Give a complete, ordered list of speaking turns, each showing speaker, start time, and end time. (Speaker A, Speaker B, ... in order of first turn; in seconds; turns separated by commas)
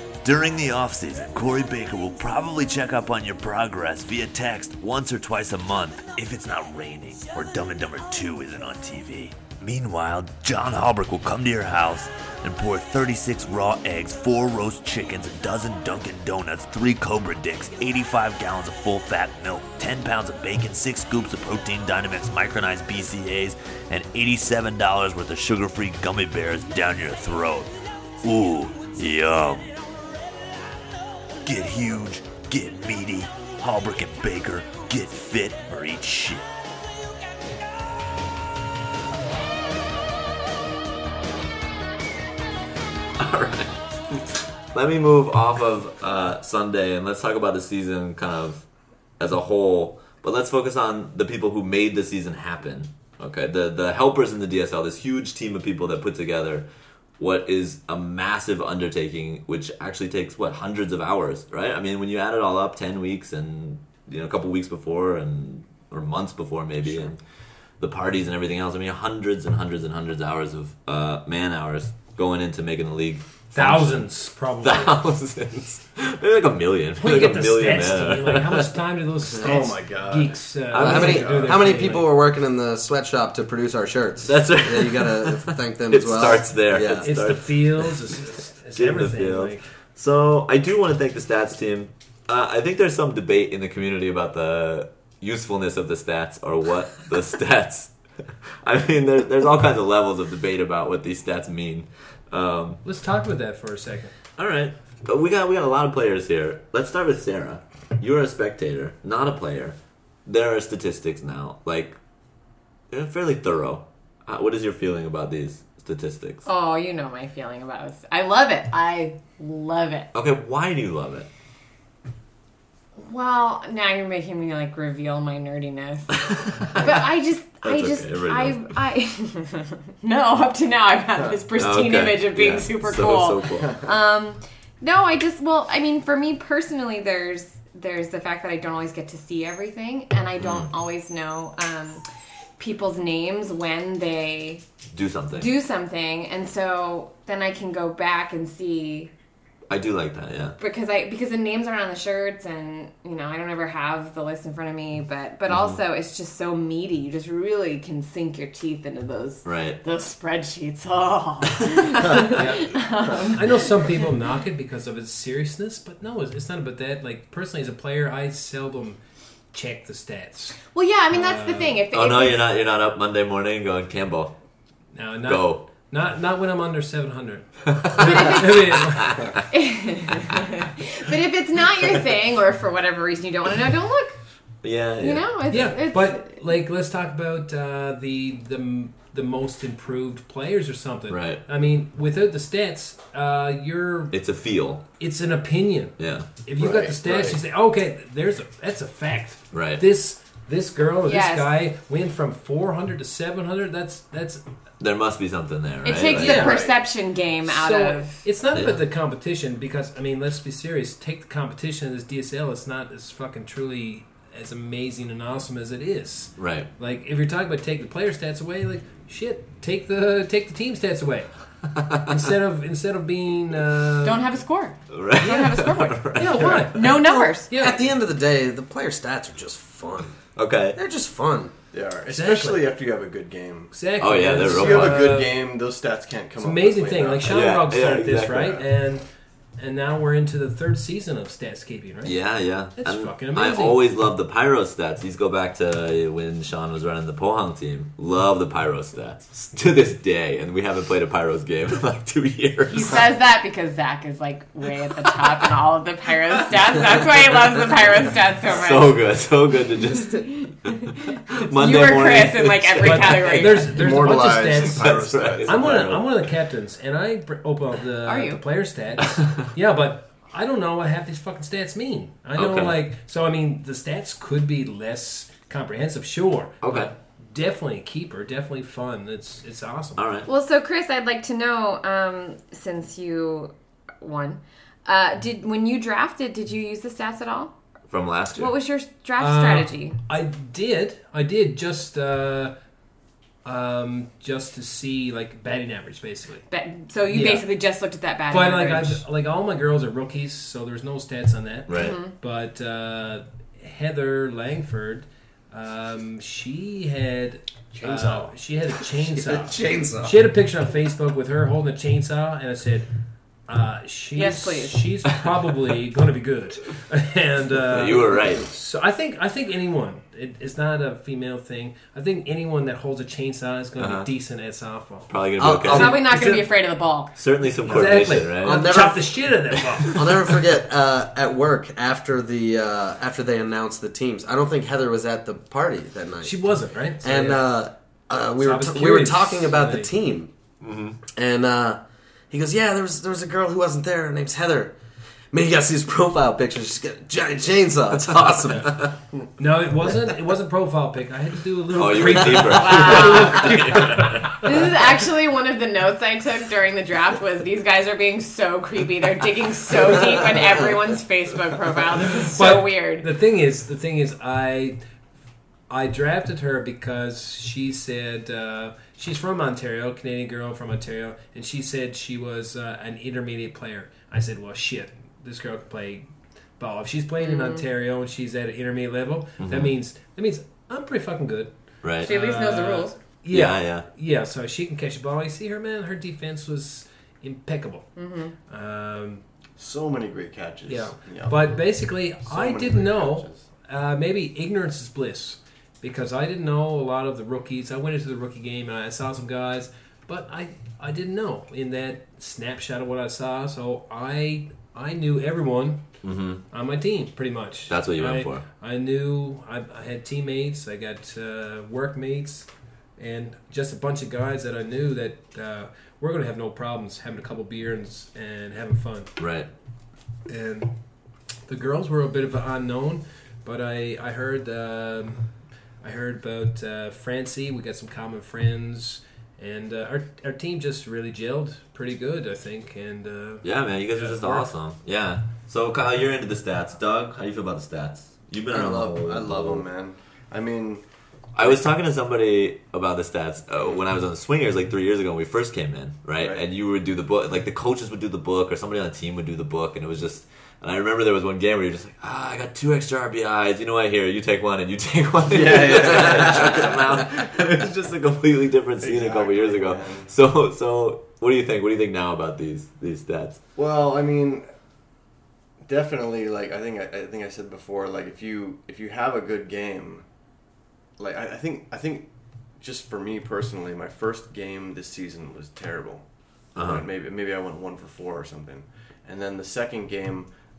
Speaker A: 0.2-29.8, Speaker A: 31.4-36.5, Speaker A: 43.2-48.6, Speaker A: 49.2-56.7, Speaker A: 57.2-67.2, Speaker A: 67.8-74.1, Speaker B: 73.5-75.0, Speaker A: 74.6-78.7, Speaker B: 77.0-82.1, Speaker C: 79.4-81.7, Speaker A: 80.7-81.4, Speaker D: 80.8-87.1, Speaker A: 84.2-88.1, Speaker B: 87.0-89.7, Speaker A: 88.8-97.9, Speaker A: 98.6-102.8, Speaker B: 102.8-104.1, Speaker A: 104.4-112.0, Speaker A: 112.9-116.5, Speaker E: 116.5-120.1, Speaker A: 120.1-121.3, Speaker E: 123.0-142.0, Speaker A: 126.1-128.7, Speaker A: 131.6-133.8, Speaker A: 140.4-140.7, Speaker E: 142.6-144.6, Speaker A: 144.9-145.5, Speaker E: 145.3-149.1, Speaker A: 149.7-150.6, Speaker E: 150.6-164.0, Speaker A: 155.5-155.8, Speaker A: 159.4-159.8, Speaker B: 162.3-169.0, Speaker B: 169.5-170.6, Speaker E: 170.7-172.5, Speaker B: 171.1-171.8, Speaker A: 171.9-174.3, Speaker B: 174.9-179.3, Speaker A: 175.3-175.7, Speaker A: 177.7-178.3, Speaker E: 178.0-178.8, Speaker A: 179.1-179.4, Speaker E: 179.4-184.2, Speaker A: 184.6-185.3, Speaker E: 185.0-186.4, Speaker B: 185.5-194.2, Speaker A: 191.1-191.4, Speaker A: 194.1-194.8, Speaker B: 195.0-204.4, Speaker A: 196.0-196.3, Speaker C: 196.6-197.4, Speaker A: 199.5-199.8, Speaker E: 201.1-201.6, Speaker A: 204.8-206.6, Speaker E: 205.8-208.2, Speaker B: 206.2-206.7, Speaker C: 206.4-206.7, Speaker B: 207.5-221.3, Speaker A: 208.5-208.8, Speaker A: 216.4-216.7, Speaker B: 222.0-224.4, Speaker E: 224.0-227.5, Speaker A: 224.9-226.9, Speaker B: 226.2-227.8, Speaker D: 227.5-230.2, Speaker A: 230.4-230.8, Speaker D: 230.7-231.5, Speaker C: 231.7-233.7, Speaker B: 232.1-232.7, Speaker B: 233.7-235.4, Speaker A: 234.0-235.2, Speaker C: 234.3-237.3, Speaker B: 236.4-239.1, Speaker A: 237.3-238.7, Speaker B: 239.6-242.2, Speaker A: 242.1-253.1, Speaker B: 242.8-243.8, Speaker E: 252.7-259.0, Speaker A: 256.8-257.5, Speaker A: 258.4-260.8, Speaker E: 259.9-263.8, Speaker A: 261.3-266.1, Speaker B: 262.8-280.0, Speaker C: 263.7-266.0, Speaker E: 268.1-268.4, Speaker A: 269.1-269.4, Speaker A: 272.4-272.8, Speaker A: 276.6-276.9, Speaker A: 280.0-280.3, Speaker E: 280.3-287.6, Speaker A: 287.9-288.6, Speaker E: 288.3-290.0, Speaker B: 289.2-292.6, Speaker B: 293.4-296.4, Speaker E: 296.5-299.0, Speaker B: 297.1-297.5, Speaker B: 298.3-312.9, Speaker A: 301.7-302.0, Speaker E: 301.7-302.1, Speaker D: 308.9-310.3, Speaker B: 313.5-325.1, Speaker E: 314.1-314.9, Speaker A: 317.7-318.5, Speaker A: 323.8-324.1, Speaker A: 325.1-326.0, Speaker D: 325.4-326.0, Speaker E: 325.7-327.1, Speaker B: 325.7-326.5, Speaker A: 327.2-328.7, Speaker B: 327.6-330.0, Speaker D: 328.3-329.1, Speaker A: 329.9-330.2, Speaker D: 329.9-336.4, Speaker B: 336.2-337.5, Speaker D: 337.0-340.3, Speaker B: 338.4-339.9, Speaker A: 340.6-341.0, Speaker D: 341.1-344.8, Speaker D: 345.3-348.9, Speaker B: 349.4-354.5, Speaker A: 351.8-354.4, Speaker E: 352.4-363.1, Speaker B: 362.3-364.8, Speaker B: 365.7-387.9, Speaker E: 377.2-377.6, Speaker A: 379.4-379.7, Speaker A: 381.8-382.1, Speaker E: 382.0-383.0, Speaker A: 383.3-383.9, Speaker E: 388.0-388.3, Speaker B: 388.5-389.2, Speaker C: 389.6-391.7, Speaker B: 390.7-405.9, Speaker C: 392.2-393.4, Speaker A: 406.0-406.4, Speaker B: 406.5-419.1, Speaker A: 407.7-408.4, Speaker A: 419.2-419.5, Speaker B: 420.3-420.7, Speaker B: 421.5-425.3, Speaker B: 425.8-434.5, Speaker A: 433.4-439.6, Speaker C: 438.5-440.8, Speaker D: 438.5-439.1, Speaker A: 441.4-463.4, Speaker C: 455.3-457.1, Speaker C: 458.8-460.1, Speaker C: 463.6-464.4, Speaker C: 465.6-470.1, Speaker C: 471.0-472.1, Speaker C: 472.6-480.3, Speaker A: 476.6-476.9